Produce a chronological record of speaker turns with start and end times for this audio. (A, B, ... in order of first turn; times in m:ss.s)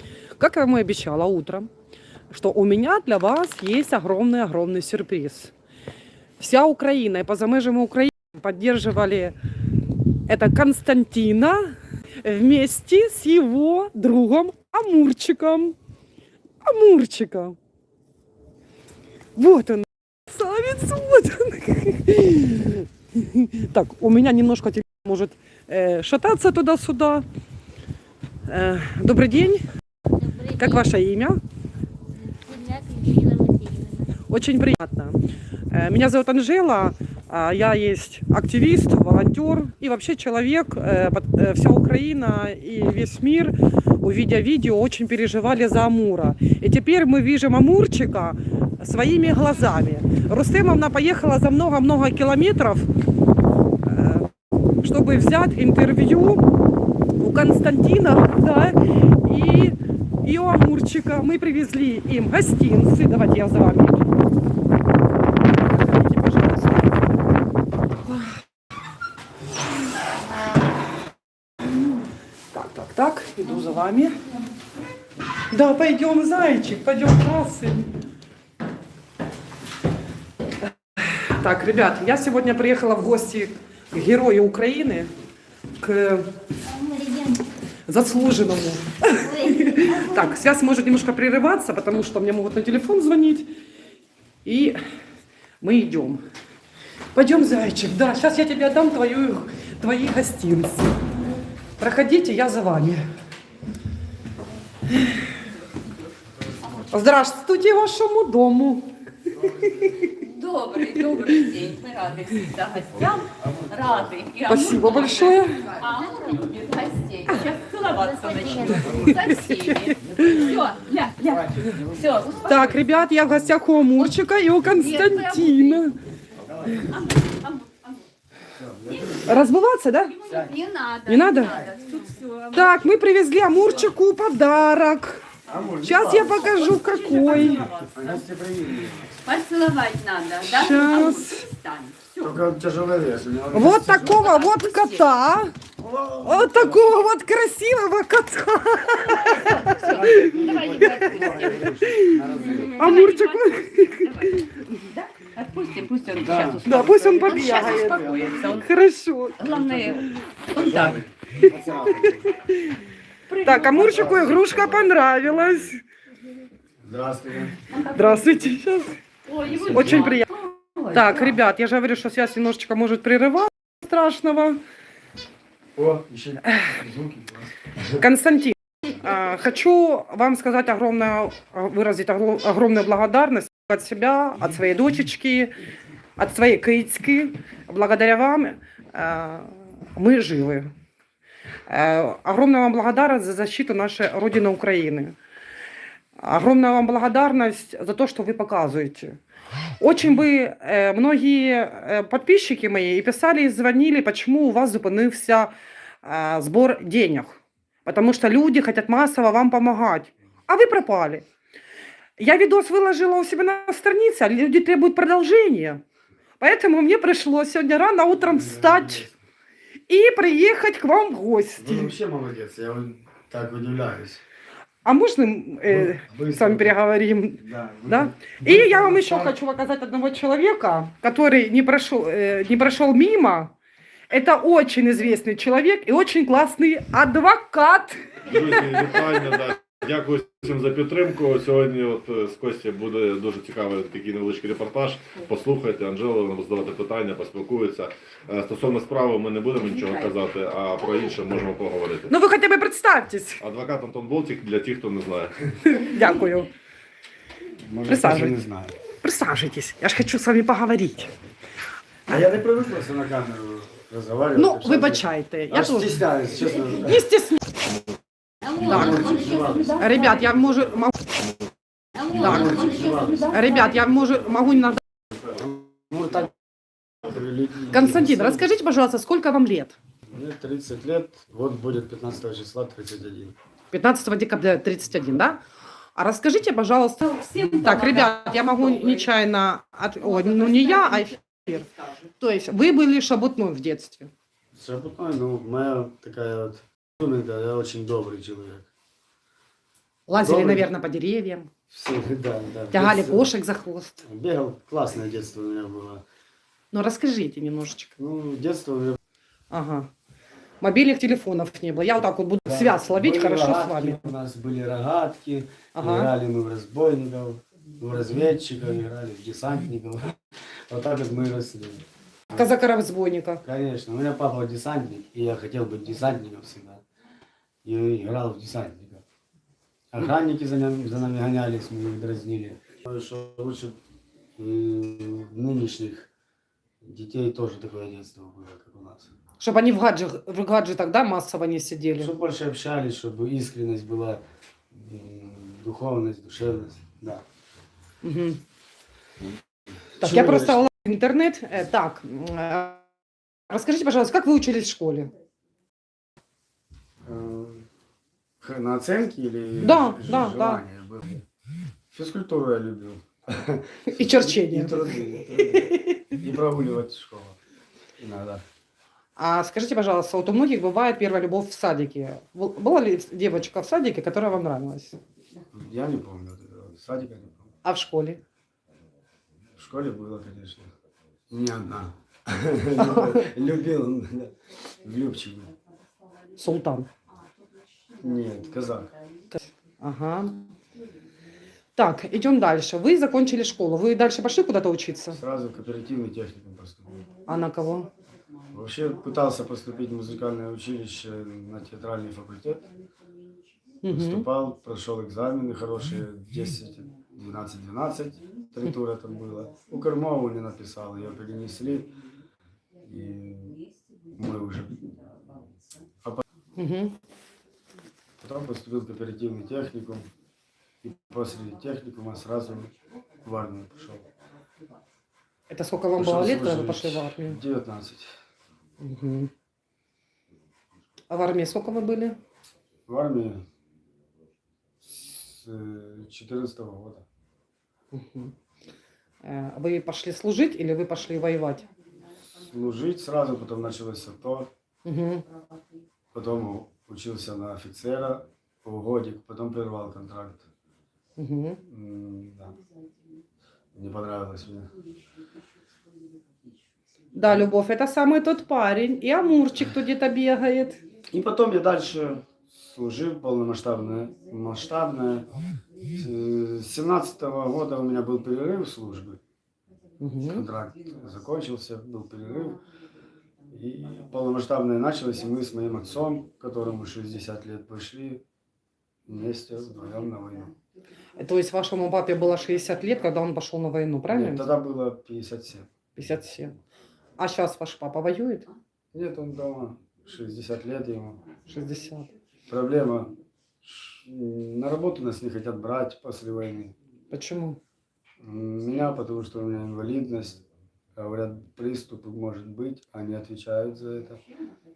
0:00.4-0:01.7 A
0:02.3-0:05.5 A
0:06.4-0:09.3 A
0:10.2-0:15.8 A
0:16.6-0:17.6 A
0:19.4-0:27.2 A
0:28.4-0:29.6 A
0:30.1-0:30.9 B
0:30.6-0:31.4 A
0:32.2-0:34.2 B
0:34.3-0:35.2 A
0:35.7-0:52.9 A
0:53.8-0:54.3 A
0:54.8-0:56.4 A
0:57.2-1:04.1 A
1:05.6-1:07.0 A
1:12.5-1:14.2 A
1:15.5-1:17.9 A
1:21.0-1:25.1 A
1:25.8-1:26.3 A
1:26.6-1:27.4 B
1:27.9-1:33.5 A
1:29.1-1:30.4 B
1:34.4-1:34.8 A
1:35.6-1:36.2 A
1:37.1-1:41.0 A
1:41.8-1:43.0 A
1:46.9-1:50.1 A
1:50.1-2:02.9 C
1:53.3-1:53.7 D
1:54.5-1:55.8 A
1:57.9-1:59.3 B
1:58.9-2:00.4 A
2:00.0-2:00.7 D
2:01.2-2:02.2 D
2:02.4-2:06.0 A
2:04.7-2:05.8 C
2:06.4-2:07.1 D
2:06.9-2:08.0 C
2:08.5-2:09.4 D
2:08.9-2:09.4 C
2:09.2-2:10.1 A
2:10.1-2:12.8 C
2:10.2-2:10.6 D
2:11.0-2:11.6 A
2:12.5-2:15.2 A
2:15.5-2:19.2 D
2:15.8-2:17.6 A
2:16.3-2:18.2 C
2:19.2-2:22.4 C
2:20.4-2:21.5 A
2:22.2-2:24.3 D
2:23.5-2:25.5 A
2:23.9-2:25.1 C
2:25.8-2:26.8 D
2:26.2-2:30.3 A
2:29.2-2:31.5 C
2:29.7-2:32.9 D
2:31.5-2:32.2 A
2:32.4-2:38.6 C
2:32.8-2:34.8 A
2:36.1-2:38.6 D
2:36.6-2:39.4 A
2:39.4-2:41.0 C
2:39.6-2:39.9 D
2:40.5-2:42.3 D
2:41.4-2:42.8 A
2:43.3-2:44.2 C
2:43.4-2:45.8 A
2:43.7-2:44.9 D
2:46.8-2:47.6 D
2:47.7-2:48.5 C
2:47.9-2:49.0 A
2:49.2-2:51.4 C
2:49.4-2:50.2 D
2:49.7-2:50.3 A
2:50.9-2:54.6 A
2:55.8-2:58.0 D
2:57.9-3:05.5 A
3:06.2-3:10.7 A
3:11.7-3:15.2 A
3:16.2-3:19.2 A
3:19.8-3:31.2 A
3:32.2-3:35.8 A
3:36.4-3:39.1 A
3:38.2-3:39.1 D
3:39.9-3:41.9 A
3:41.6-3:44.2 D
3:44.8-3:53.5 A
3:45.7-3:46.8 D
3:47.4-3:49.4 D
3:54.1-3:58.4 A
3:58.2-4:12.1 E
4:12.1-4:13.4 A
4:13.4-4:15.4 E
4:15.6-4:16.5 A
4:17.6-4:18.7 D
4:17.9-4:18.4 A
4:19.0-4:21.1 A
4:22.1-4:27.0 D
4:24.4-4:26.0 A
4:26.7-4:27.5 A
4:28.4-4:30.2 C
4:28.5-4:29.8 D
4:28.6-4:29.1 A
4:29.8-4:31.0 A
4:32.0-4:33.7 C
4:32.1-4:33.4 D
4:32.1-4:32.8 A
4:33.3-4:34.8 A
4:35.3-4:36.3 D
4:36.9-4:38.5 D
4:37.7-4:39.8 A
4:40.1-4:43.4 D
4:43.7-4:45.4 A
4:45.9-4:54.1 A
4:47.0-4:49.0 C
4:50.0-4:51.1 C
4:54.5-4:58.7 D
5:00.1-5:01.5 A
5:00.1-5:00.7 D
5:01.7-5:03.3 D
5:02.7-5:04.0 A
5:04.0-5:06.0 D
5:06.7-5:08.0 A
5:08.0-5:09.0 D
5:09.5-5:09.9 A
5:10.6-5:14.1 A
5:12.4-5:20.2 D
5:15.7-5:16.1 A
5:20.7-5:22.5 D
5:22.3-5:23.4 A
5:23.4-5:26.8 D
5:27.6-5:29.0 D
5:29.9-5:33.8 D
5:34.4-5:36.1 D
5:36.8-5:39.1 D
5:39.4-5:42.1 A
5:42.0-5:47.2 D
5:48.0-5:48.4 A
5:49.9-5:50.7 D
5:50.0-5:52.9 A
5:53.5-5:55.1 A
5:57.0-5:57.7 D
5:58.4-6:01.2 D
5:59.6-6:00.6 A
6:01.9-6:07.4 D
6:03.9-6:06.0 A
6:08.0-6:08.4 D
6:09.2-6:15.0 A
6:15.5-6:17.5 D
6:17.6-6:18.2 A
6:19.6-6:20.7 D
6:21.3-6:25.5 D
6:22.8-6:23.3 A
6:26.4-6:26.9 A
6:28.0-6:28.9 D
6:29.3-6:30.5 A
6:31.8-6:35.2 A
6:35.1-6:37.0 D
6:37.3-6:37.9 A
6:38.5-6:42.7 D
6:43.8-6:44.3 A
6:43.9-6:52.0 D
6:52.8-6:53.6 D
6:54.1-6:55.0 D
6:56.6-6:56.9 A
6:58.2-7:00.1 D
7:00.8-7:04.1 D
7:05.5-7:07.4 A
7:05.9-7:08.1 D
7:08.8-7:09.3 A
7:11.1-7:12.2 A
7:12.9-7:13.4 D
7:14.8-7:17.0 D
7:17.9-7:18.3 A
7:19.2-7:21.7 A
7:22.4-7:24.5 D
7:24.8-7:25.2 A
7:26.1-7:30.5 D
7:31.2-7:31.6 A
7:31.6-7:32.6 D
7:33.7-7:34.7 D
7:37.1-7:40.8 A
7:41.1-7:45.3 D
7:45.8-7:49.2 D
7:50.0-7:50.4 A
7:50.2-7:52.6 D
7:53.5-7:58.2 D
7:59.0-8:00.5 D
8:01.2-8:04.5 A
8:04.1-8:05.7 D
8:06.0-8:06.6 A
8:07.2-8:08.5 A
8:08.9-8:11.2 D
8:11.5-8:12.1 A
8:12.5-8:16.8 D
8:17.1-8:17.6 A
8:18.2-8:20.4 D
8:20.9-8:24.2 D